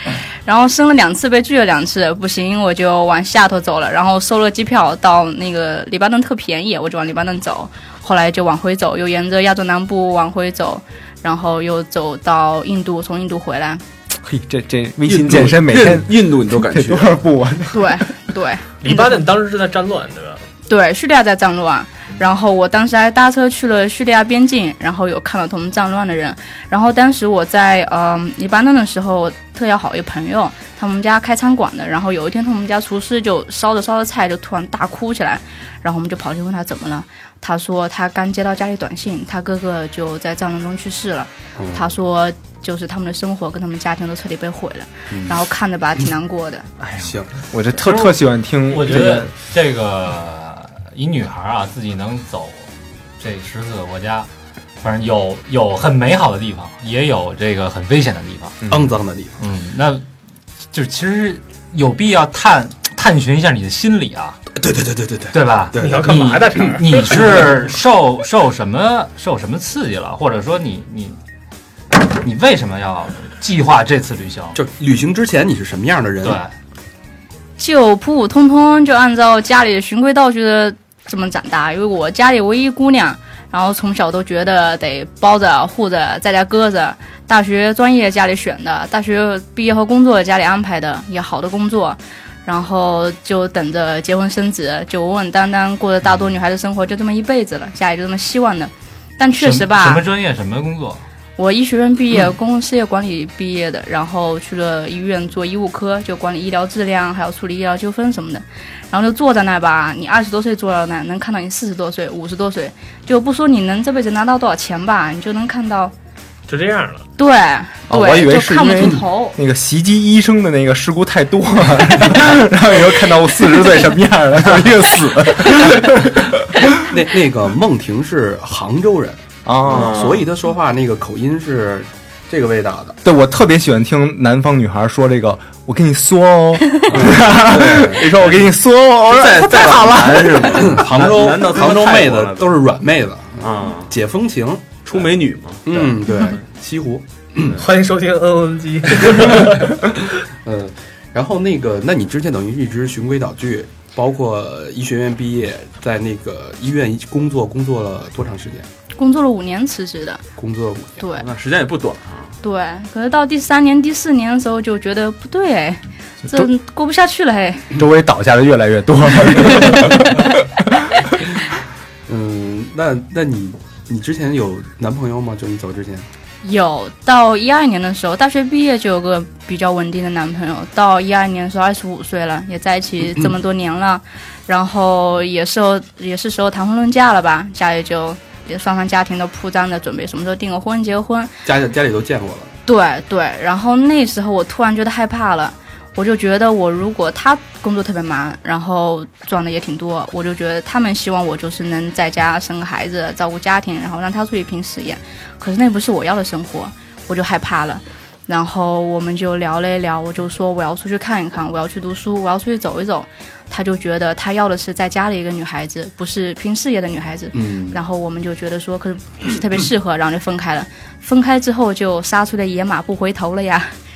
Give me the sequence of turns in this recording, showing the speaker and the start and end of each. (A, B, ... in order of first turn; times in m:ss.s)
0:00.5-0:13.8 A
0:14.2-0:18.0 B
0:15.0-0:17.2 C
0:17.7-0:19.2 A
0:18.8-0:20.4 D
0:20.7-0:46.7 A
0:41.6-0:41.9 E
0:45.1-0:45.4 E
0:47.0-0:47.3 E
0:47.5-0:49.3 B
0:47.8-0:52.7 F
0:53.2-0:54.3 F
0:54.8-0:58.6 F
0:58.6-0:58.9 B
0:58.7-0:59.3 E
0:59.4-1:00.0 F
1:00.7-1:04.4 F
1:04.6-1:06.7 E
1:05.3-1:11.2 F
1:05.8-1:07.3 D
1:12.1-1:14.6 F
1:14.6-1:16.4 E
1:16.2-1:16.5 F
1:17.6-1:40.0 A
1:39.4-1:41.0 F
1:41.4-1:55.9 A
1:56.5-1:57.0 D
1:57.2-1:59.4 A
1:57.9-2:06.7 B
2:06.8-2:13.0 E
2:09.4-2:10.2 B
2:09.7-2:10.3 C
2:13.0-2:20.8 B
2:16.9-2:18.0 E
2:17.4-2:18.5 C
2:19.1-2:22.6 C
2:20.6-2:24.8 E
2:23.4-2:23.9 C
2:24.8-2:25.9 C
2:25.6-2:27.6 E
2:27.6-2:29.8 D
2:30.4-2:38.7 E
2:38.9-2:40.2 A
2:40.4-2:41.0 E
2:41.0-2:41.2 A
2:41.2-2:42.3 C
2:42.4-2:47.7 A
2:47.8-2:50.3 B
2:52.1-2:56.1 E
2:56.4-3:11.3 A
3:11.4-3:12.5 E
3:12.7-3:43.7 A
3:37.3-3:37.8 E